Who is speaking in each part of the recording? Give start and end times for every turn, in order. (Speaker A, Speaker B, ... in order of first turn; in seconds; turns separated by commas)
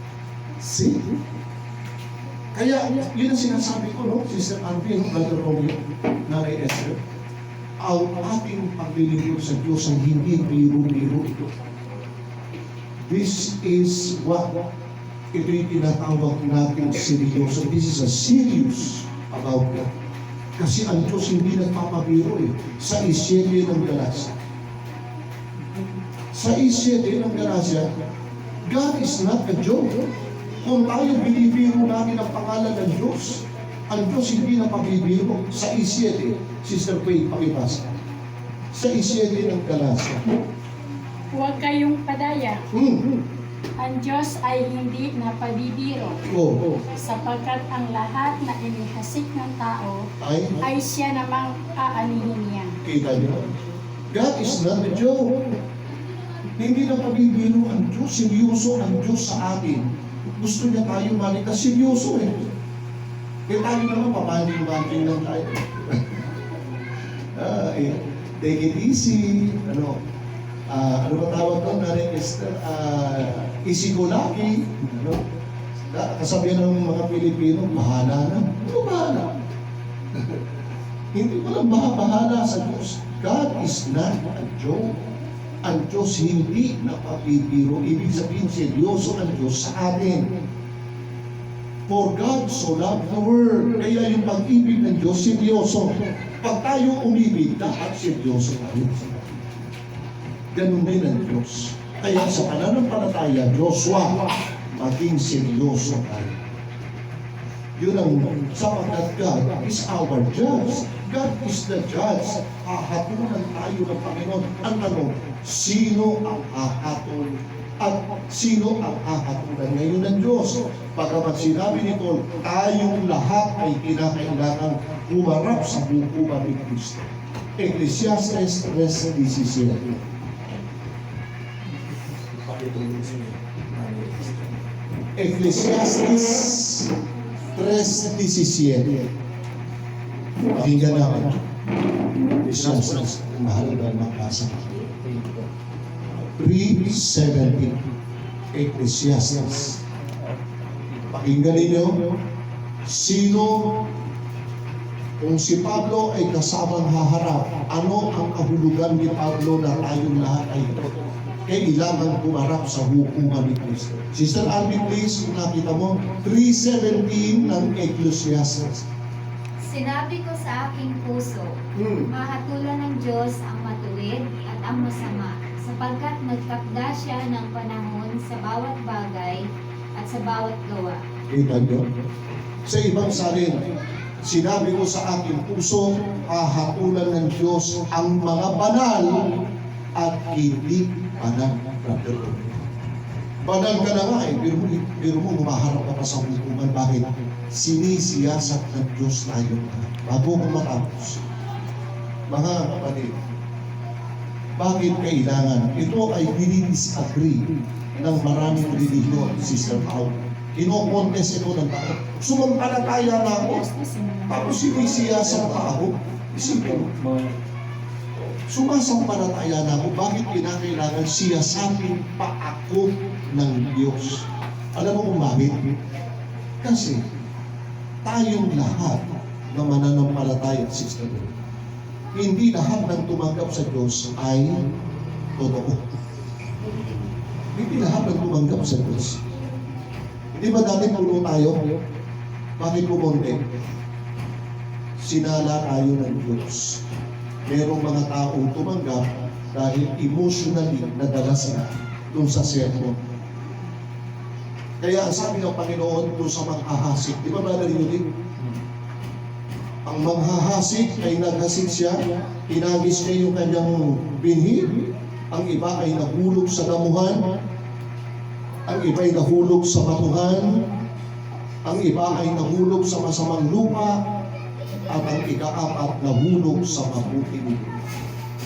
Speaker A: 0.6-1.0, Speaker A: 2.5-7.0, Speaker A: 7.8-11.5, Speaker A: 13.0-14.5, Speaker A: 15.3-19.9, Speaker A: 20.6-24.4, Speaker A: 26.3-27.9, Speaker A: 28.7-30.0, Speaker A: 30.6-37.8, Speaker A: 38.7-40.2, Speaker B: 41.3-42.7, Speaker A: 42.7-43.0, Speaker B: 43.8-46.2, Speaker A: 46.2-46.6, Speaker B: 46.9-50.1, Speaker A: 50.2-50.6, Speaker B: 50.6-52.8, Speaker A: 52.8-53.4, Speaker A: 54.1-55.3, Speaker A: 56.6-62.4, Speaker A: 63.5-66.1, Speaker A: 67.3-70.0, Speaker A: 70.7-75.2, Speaker A: 75.9-79.3, Speaker A: 81.1-85.0, Speaker A: 85.6-90.3, Speaker A: 91.9-99.3, Speaker A: 100.5-106.4, Speaker A: 107.8-130.0, Speaker A: 135.2-136.9, Speaker A: 137.5-139.0, Speaker A: 140.5-141.3, Speaker A: 142.4-144.9, Speaker A: 146.3-147.8, Speaker A: 148.5-149.8, Speaker A: 151.1-152.0, Speaker A: 152.8-153.7, Speaker A: 155.2-160.9, Speaker A: 161.4-168.8, Speaker C: 169.6-171.6, Speaker A: 171.8-172.1, Speaker C: 172.1-179.4, Speaker C: 179.9-181.0, Speaker A: 181.3-181.9, Speaker A: 182.7-183.6, Speaker A: 184.2-189.3, Speaker A: 190.0-192.6, Speaker A: 193.4-201.2, Speaker A: 202.3-203.2, Speaker A: 204.6-207.4, Speaker A: 208.0-213.6, Speaker B: 208.3-209.6, Speaker B: 213.2-214.7, Speaker A: 214.3-216.9, Speaker A: 218.5-224.2, Speaker A: 224.7-225.6, Speaker A: 226.6-227.0, Speaker A: 228.0-231.3, Speaker A: 232.1-234.6, Speaker A: 235.4-235.8, Speaker A: 237.5-239.2, Speaker A: 240.3-241.6, Speaker A: 242.6-243.4, Speaker A: 245.0-246.8, Speaker A: 247.5-252.9, Speaker A: 254.8-258.0, Speaker A: 259.9-264.8, Speaker A: 265.3-267.2, Speaker A: 268.7-270.6, Speaker A: 271.6-273.9, Speaker A: 274.9-277.8